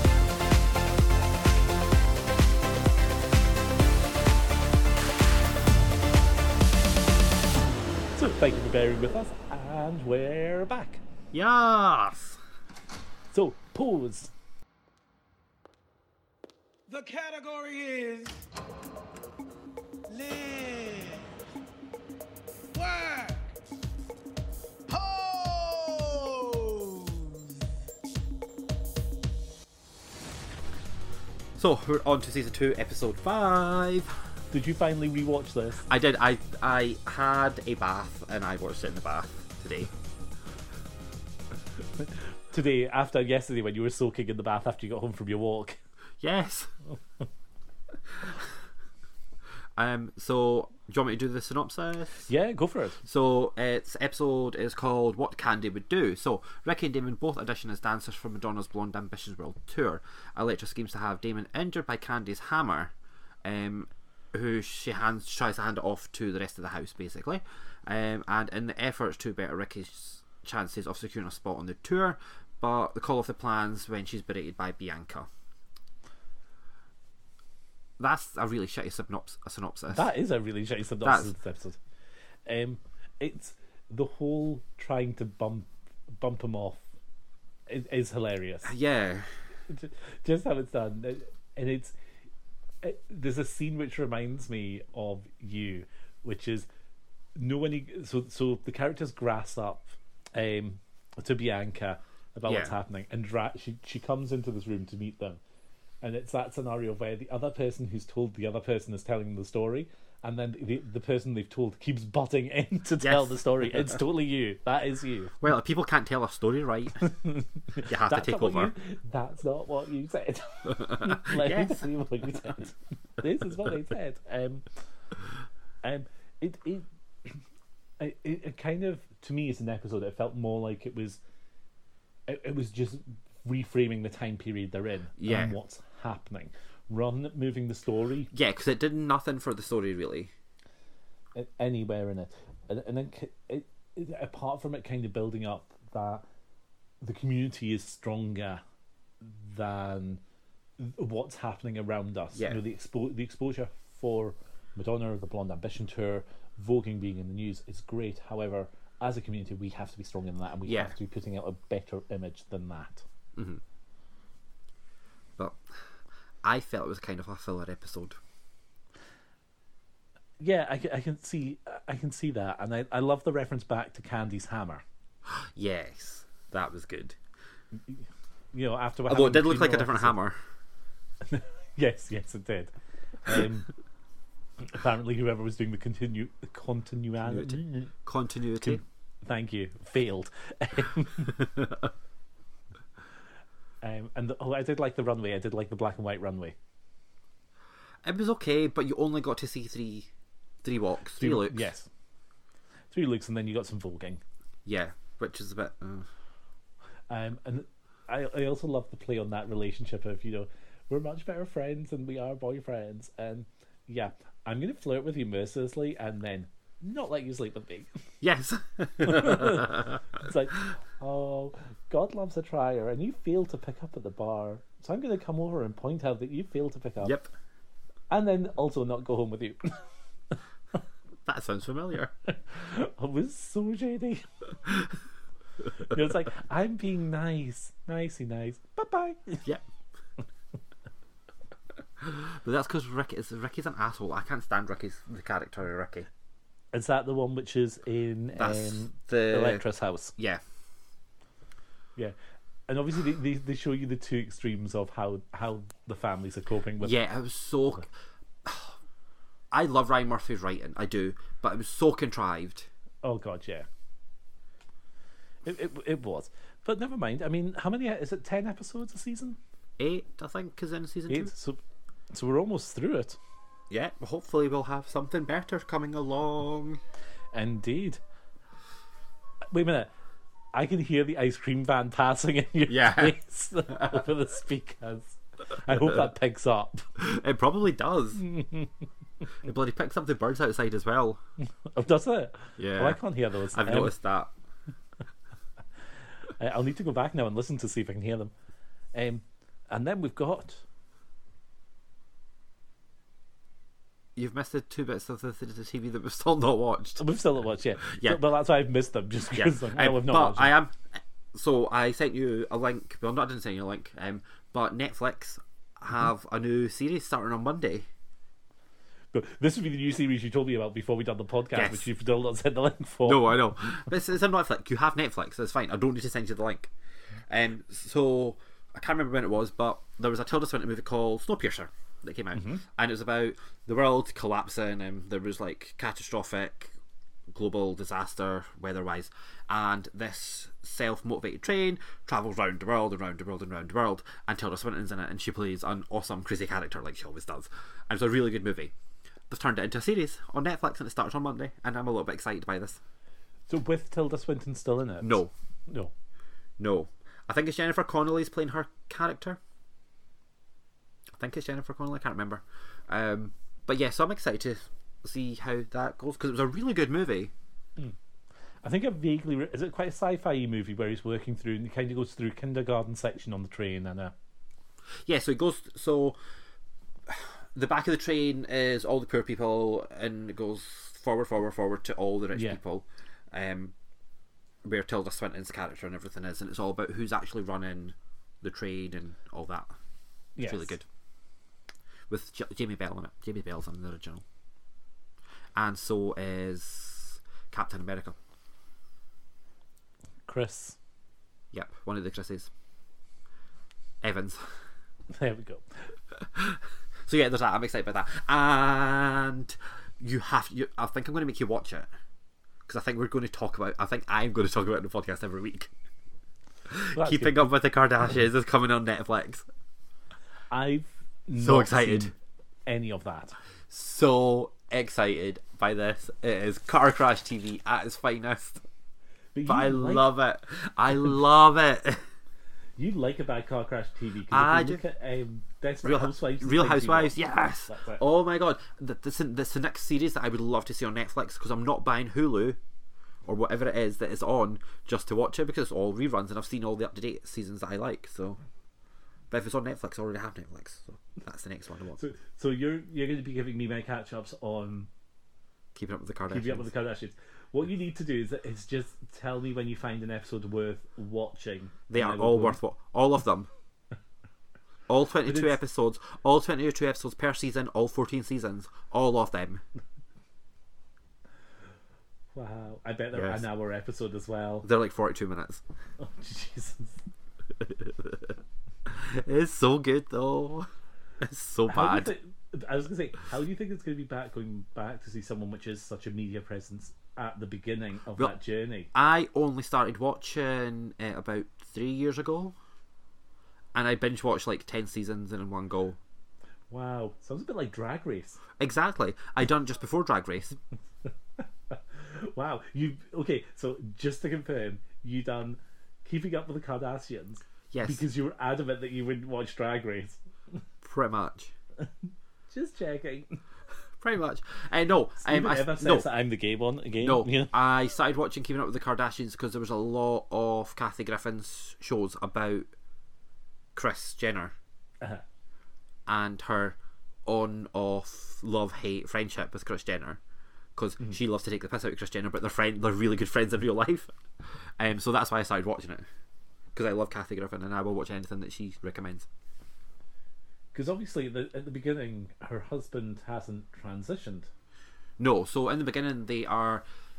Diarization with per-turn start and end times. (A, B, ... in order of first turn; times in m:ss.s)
0:08.2-0:11.0 A
0:11.3-0:12.4 B
0:13.3-0:14.3 A
0:16.9-0:18.5 C
0:20.1-0:21.3 C
0:22.7-0:23.6 C
0:24.9-0:27.6 C
0:31.6-0:34.1 B
0:34.5-0:35.9 A
0:35.9-0:39.9 B
0:42.0-0:45.8 A
0:46.2-0:46.7 B
0:49.8-0:52.3 B
0:52.3-0:53.0 A
0:53.0-1:02.9 B
1:03.4-1:15.3 B
1:18.0-1:20.1 B
1:19.9-1:21.8 A
1:21.0-1:21.3 B
1:22.5-1:26.8 A
1:27.7-1:28.7 A
1:28.6-1:29.3 B
1:29.7-1:31.9 A
1:32.8-1:36.7 A
1:37.4-1:45.4 A
1:42.5-1:42.8 B
1:46.0-1:55.4 A
1:53.0-1:54.0 B
1:55.4-1:57.1 B
1:57.0-2:04.6 A
1:57.9-1:58.7 B
2:00.7-2:01.9 B
2:05.8-2:07.4 A
2:08.0-2:11.2 A
2:12.3-2:18.3 A
2:15.2-2:15.5 B
2:18.3-2:20.3 B
2:21.4-2:26.2 A
2:27.0-2:28.6 A
2:29.2-2:30.2 A
2:30.8-2:43.0 A
2:32.4-2:32.6 B
2:40.6-2:40.9 B
2:43.4-2:43.6 B
2:45.4-2:45.6 B
2:46.4-2:48.2 B
2:50.4-2:54.8 A
2:55.3-2:57.2 B
2:57.9-3:00.2 A
2:59.1-3:00.4 B
3:01.2-3:02.7 A
3:03.2-3:03.7 A
3:04.6-3:07.9 A
3:07.2-3:08.8 B
3:08.6-3:11.4 A
3:11.4-3:11.7 B
3:13.8-3:16.6 A
3:18.0-3:20.1 B
3:20.6-3:21.7 B
3:21.2-3:21.9 A
3:22.9-3:24.2 A
3:24.7-3:26.1 B
3:27.1-3:38.0 A
3:38.2-3:40.0 B
3:39.0-3:47.2 A
3:47.0-3:47.3 B
3:48.1-3:50.4 A
3:51.2-3:52.1 B
3:52.5-3:54.5 A
3:55.7-3:59.4 A
4:02.0-4:06.1 B
4:06.7-4:10.2 A
4:08.4-4:09.6 B
4:12.7-4:16.9 A
4:16.8-4:17.9 B
4:18.4-4:18.8 B
4:19.5-4:22.7 B
4:23.0-4:23.7 A
4:25.4-4:29.4 A
4:29.8-4:31.3 B
4:31.1-4:31.6 A
4:32.1-4:33.2 A
4:33.7-4:36.8 B
4:37.3-4:38.0 A
4:39.5-4:39.9 A
4:40.5-4:46.9 A
4:42.7-4:43.2 B
4:43.7-4:44.0 B
4:47.0-4:48.2 B
4:48.2-4:48.7 A
4:49.4-4:51.2 B
4:51.7-4:54.0 A
4:52.6-4:53.0 B
4:53.5-4:54.3 B
4:56.4-4:58.3 A
4:58.9-5:00.6 A
5:04.2-5:07.0 B
5:07.0-5:10.5 A
5:07.9-5:08.2 B
5:09.3-5:10.8 B
5:11.3-5:17.9 B
5:19.1-5:23.6 A
5:21.6-5:21.9 B
5:23.1-5:26.7 B
5:27.3-5:36.7 B
5:32.4-5:32.6 A
5:37.3-5:48.7 B
5:49.3-5:52.8 B
5:53.5-5:55.9 A
5:55.0-5:55.3 B
5:56.6-5:59.4 B
6:01.2-6:07.3 B
6:08.6-6:14.1 A
6:15.1-6:16.2 B
6:17.1-6:23.7 B
6:24.6-6:29.7 B
6:30.4-6:30.7 A
6:30.4-6:30.8 B
6:32.1-6:34.2 B
6:35.6-6:38.2 B
6:40.3-6:40.8 A
6:41.5-6:42.5 B
6:44.0-6:44.4 B
6:45.1-6:45.6 A
6:46.2-6:51.9 B
6:52.7-6:55.7 B
6:56.7-6:59.5 B
6:56.9-6:57.5 A
7:00.5-7:02.1 A
7:01.4-7:02.1 B
7:02.7-7:03.4 A
7:03.7-7:08.6 B
7:09.3-7:10.1 A
7:09.5-7:12.0 B
7:12.8-7:18.0 A
7:14.3-7:14.8 B
7:15.8-7:22.6 B
7:23.3-7:28.4 B
7:29.3-7:32.0 B
7:32.0-7:34.9 A
7:35.8-7:36.7 B
7:36.3-7:42.6 A
7:41.9-7:43.5 B
7:44.9-7:49.6 B
7:45.2-7:45.6 A
7:52.3-7:54.7 A
7:53.1-7:53.4 B
7:54.6-7:55.6 B
7:56.0-7:57.0 A
7:57.6-7:58.3 B
7:58.9-8:00.7 B
8:01.2-8:02.1 B
8:01.7-8:08.9 A
8:08.9-8:12.6 B
8:13.7-8:16.0 B
8:16.7-8:18.4 A
8:18.6-8:20.6 B
8:21.4-8:30.2 A
8:27.7-8:28.0 B
8:30.8-8:31.5 B
8:32.5-8:33.4 A
8:34.0-8:36.1 B
8:35.2-8:37.5 A
8:37.0-8:42.7 B
8:43.8-8:44.5 B
8:46.1-8:50.2 B
8:50.8-8:54.1 B
8:54.8-8:56.0 B
8:56.7-8:59.3 B
9:00.7-9:04.5 A
9:05.2-9:06.8 B